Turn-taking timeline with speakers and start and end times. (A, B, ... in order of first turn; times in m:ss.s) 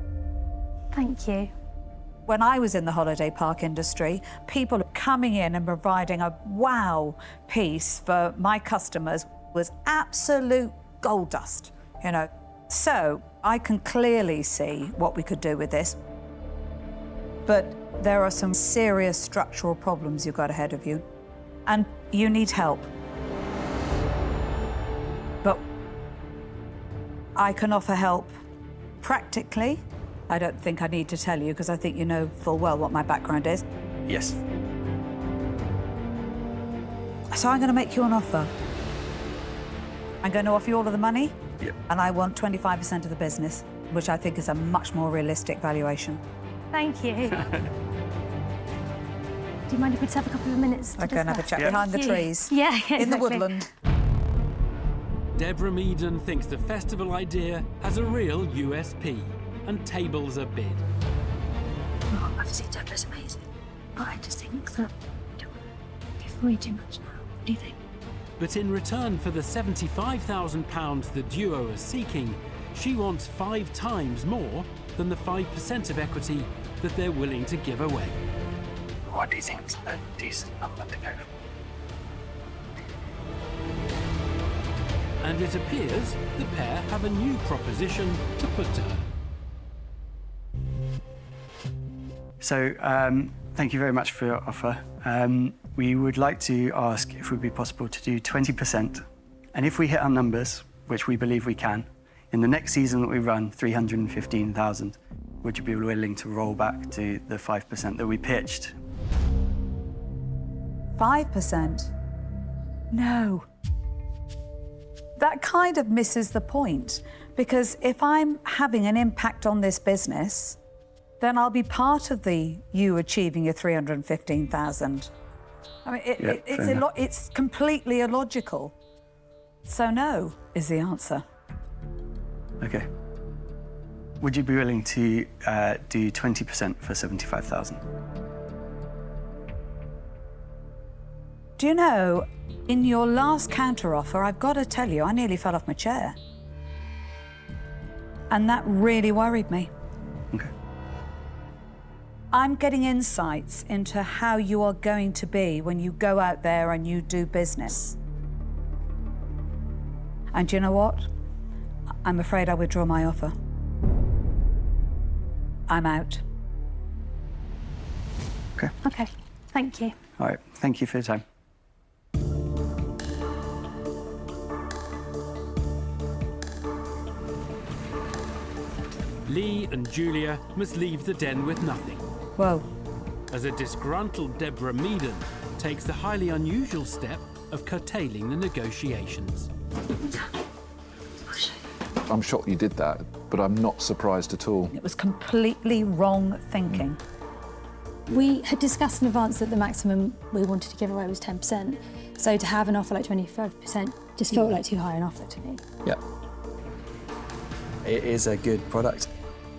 0:00.9-0:01.5 A
0:02.3-0:16.0 B
0:17.5-0:21.0 B
0:21.7-0:22.9 B
0:27.4-0:28.4 B
0:29.0-0:33.6 B
0:34.1-0:34.4 C
0:37.3-0:38.5 B
0:40.2-0:41.4 B
0:41.9-0:46.2 B
0:46.7-0:47.5 A
0:49.7-0:53.5 A
0:51.0-0:53.7 B
0:55.4-1:00.8 D
1:02.1-1:03.4 A
1:04.0-1:05.5 A
1:06.2-1:07.8 A
1:08.4-1:18.2 D
1:19.1-1:21.2 C
1:25.2-1:29.1 D
1:32.4-1:48.8 C
1:51.0-1:51.9 B
1:52.9-1:53.5 B
1:55.2-2:00.6 B
2:01.2-2:05.1 B
2:05.8-2:08.8 B
2:06.2-2:06.8 C
2:09.7-2:11.2 B
2:12.6-2:12.9 C
2:14.2-2:17.8 C
2:21.6-2:26.2 B
2:28.3-2:29.7 B
2:32.3-2:38.0 B
2:40.3-2:41.1 B
2:42.0-2:43.3 B
2:45.7-2:46.2 B
2:48.8-2:50.0 A
2:50.2-2:51.2 C
2:59.3-3:02.0 D
3:02.4-3:02.6 B
3:03.3-3:09.5 D
3:12.1-3:14.7 E
3:14.7-3:17.0 B
3:18.1-3:25.6 A
3:27.8-3:29.1 C